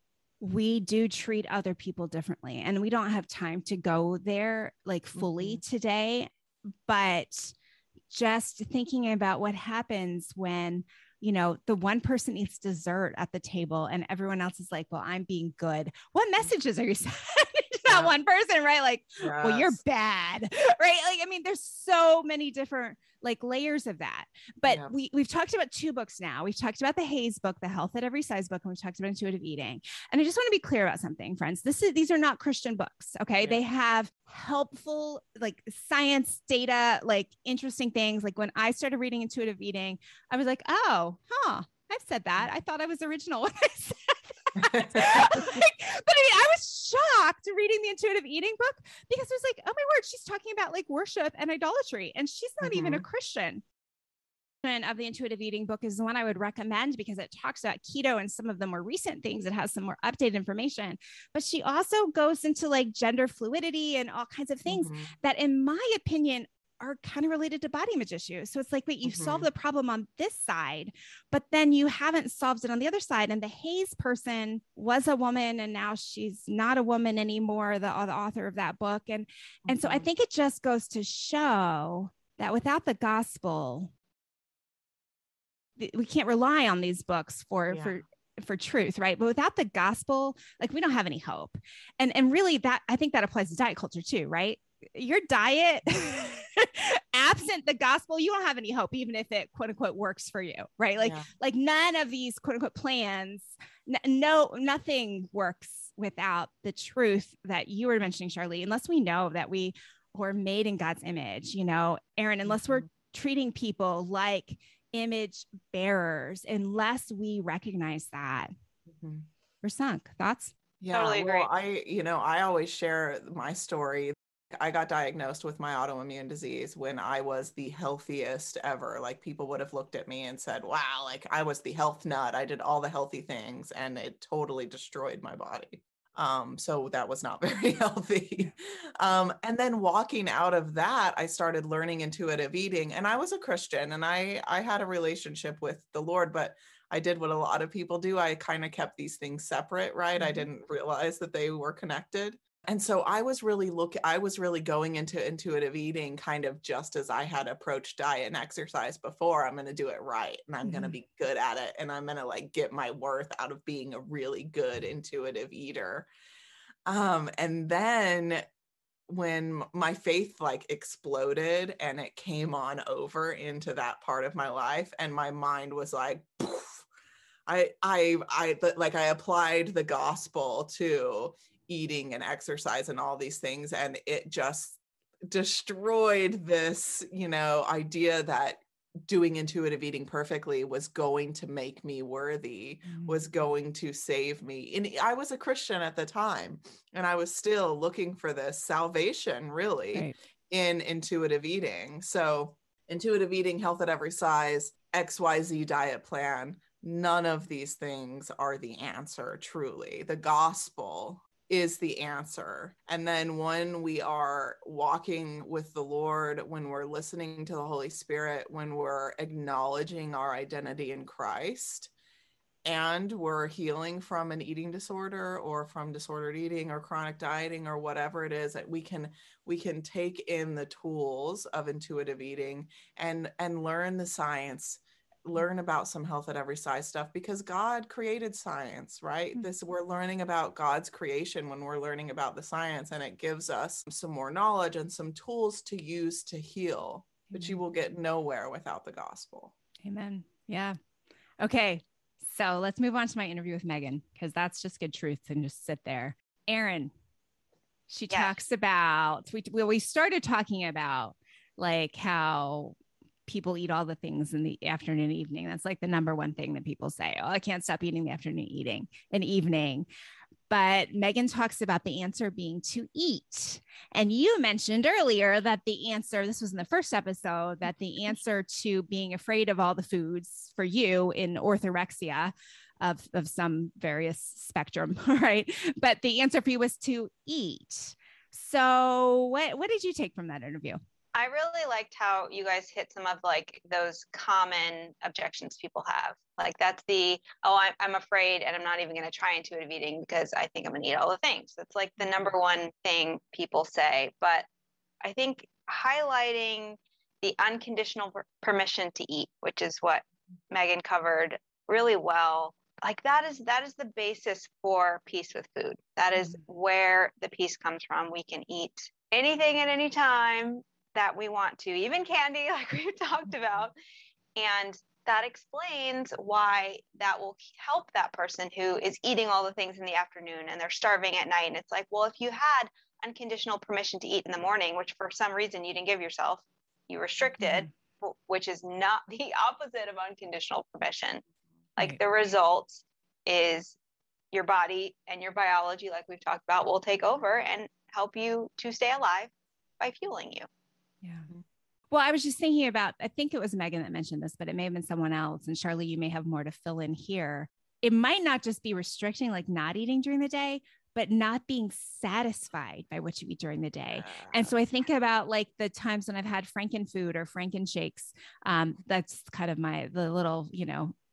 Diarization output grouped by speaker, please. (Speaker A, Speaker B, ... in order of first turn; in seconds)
Speaker A: 0.4-6.3, 6.9-7.5, 8.1-53.6, 54.6-83.9, 85.8-118.5, 119.6-120.5, 150.2-150.5, 160.6-161.0, 192.8-193.2, 247.3-247.6, 249.8-250.8, 251.4-256.9, 257.9-262.8, 263.3-269.9, 270.5-290.8, 337.4-337.7, 351.0-351.3, 351.9-370.9
Speaker B: 5.2-5.6, 17.9-18.1, 19.2-19.8, 24.6-24.9, 44.6-45.6, 52.6-53.0, 64.7-65.1, 69.0-69.5, 79.7-80.1, 87.7-88.0, 101.0-101.3, 112.4-112.9, 118.9-119.2, 120.8-166.1, 166.8-168.4, 169.1-176.8, 177.5-221.9, 222.6-249.5, 363.9-364.5
Speaker C: 120.9-121.5, 258.1-258.4, 291.1-304.4, 305.0-323.7, 324.4-341.2, 341.8-343.8, 344.3-350.5